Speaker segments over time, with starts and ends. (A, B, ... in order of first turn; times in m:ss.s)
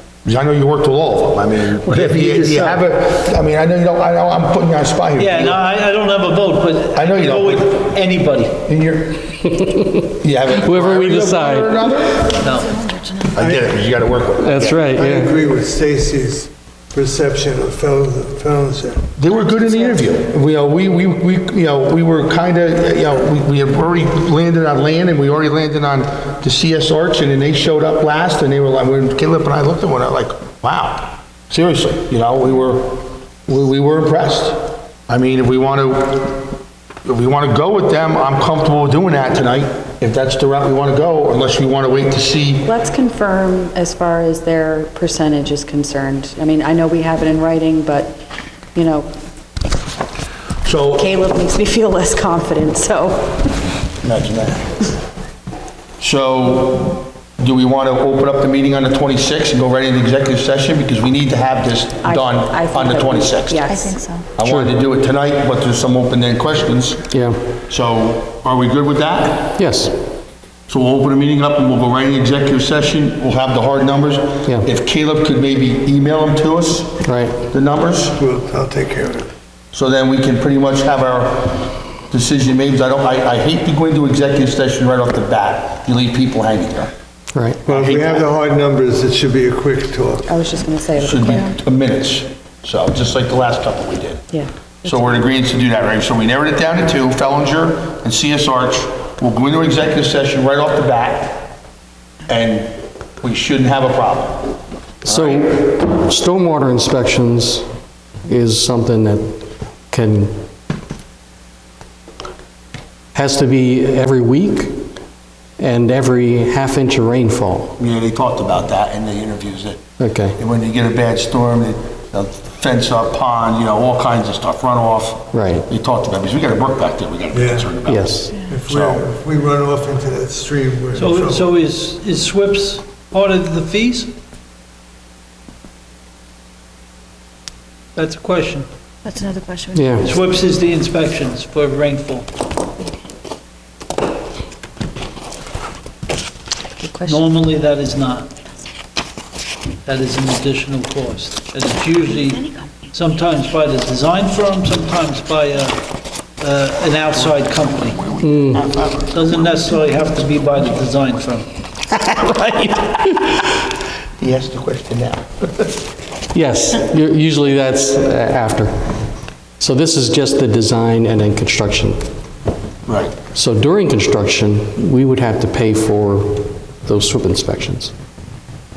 0:00.2-0:05.6 A
0:01.8-0:02.8 B
0:05.2-0:08.6 B
0:06.9-0:07.9 A
0:08.6-0:09.4 A
0:10.2-0:12.4 A
0:10.5-0:11.7 C
0:12.4-0:12.7 B
0:12.4-0:13.3 D
0:13.3-0:14.9 A
0:13.4-0:13.7 E
0:14.4-0:15.4 C
0:14.8-0:19.1 E
0:19.2-0:36.5 A
0:19.4-0:20.0 D
0:37.0-0:42.7 A
0:42.6-0:48.2 F
0:48.7-0:49.1 F
0:50.6-0:51.1 A
0:50.9-0:53.7 F
0:54.0-0:54.9 A
0:56.0-1:03.6 A
1:02.0-1:04.0 F
1:03.7-1:04.3 D
1:04.4-1:07.1 A
1:04.4-1:04.7 C
1:07.1-1:07.4 C
1:07.6-1:09.6 A
1:09.6-1:09.9 C
1:10.7-1:18.2 A
1:17.0-1:17.4 C
1:18.2-1:19.3 E
1:19.7-1:26.9 A
1:27.3-1:27.6 C
1:27.6-1:30.3 E
1:27.7-1:28.2 A
1:30.3-1:31.5 F
1:31.0-1:34.2 A
1:34.3-1:35.1 F
1:34.8-1:41.5 A
1:42.3-1:45.6 A
1:45.0-1:47.6 C
1:48.3-1:50.4 C
1:53.1-1:54.8 C
1:55.6-1:57.7 C
1:57.8-1:59.8 A
2:00.0-2:00.4 C
2:00.4-2:09.0 A
2:05.3-2:05.6 C
2:07.3-2:07.8 E
2:07.8-2:08.4 C
2:08.5-2:11.5 E
2:10.9-2:14.1 B
2:17.9-2:18.7 B
2:19.0-2:19.9 D
2:19.7-2:20.1 C
2:20.0-2:22.3 B
2:26.8-2:27.2 F
2:27.0-2:28.3 B
2:29.8-2:35.8 B
2:32.2-2:32.7 D
2:36.4-2:38.0 B
2:37.2-2:40.1 A
2:38.2-2:38.6 C
2:39.1-2:41.5 B
2:41.9-2:43.5 A
2:44.2-2:45.7 A
2:46.3-2:48.7 C
2:49.6-2:52.0 C
2:52.9-2:53.2 A
2:53.3-2:57.9 C